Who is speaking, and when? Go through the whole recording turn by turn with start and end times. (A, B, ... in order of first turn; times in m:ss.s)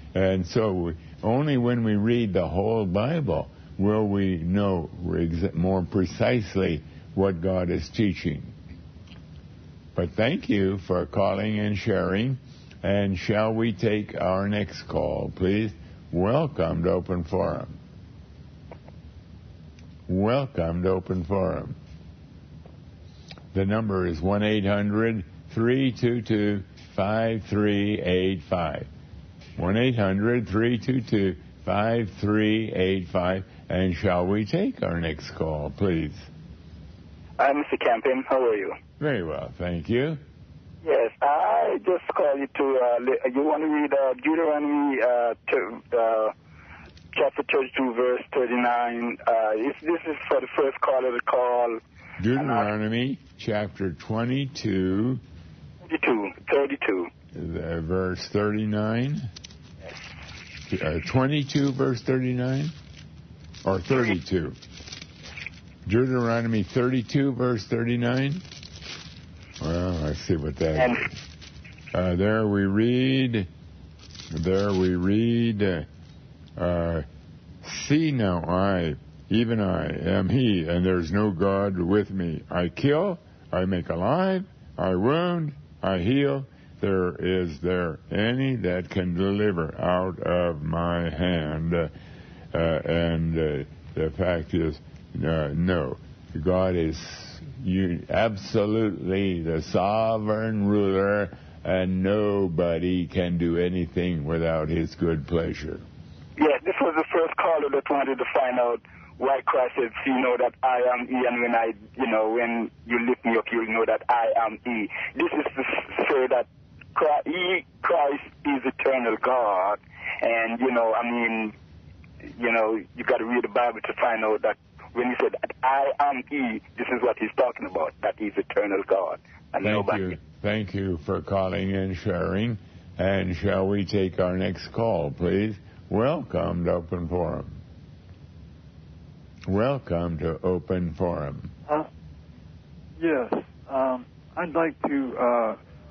0:00.1-0:08.5 A
0:10.0-0:17.7 A
0:20.1-0:21.8 A
0:23.5-0:28.9 A
0:29.6-0:36.3 A
0:37.4-0:38.8 B
0:39.0-0:40.2 A
0:40.8-0:46.3 B
0:47.1-0:51.8 B
0:52.2-0:55.2 A
0:52.3-0:52.7 B
0:55.9-0:57.1 B
0:57.3-0:59.3 A
1:00.7-1:02.7 A
1:03.6-1:04.6 A
1:05.8-1:08.4 A
1:09.6-1:11.1 A
1:11.9-1:13.5 A
1:14.3-1:15.8 A
1:16.6-1:17.0 A
1:17.6-1:31.9 A
1:32.5-1:45.8 A
1:46.4-2:01.5 B
2:02.3-2:10.2 B
2:09.6-2:17.6 A
2:19.5-2:21.5 A
2:23.0-2:25.6 C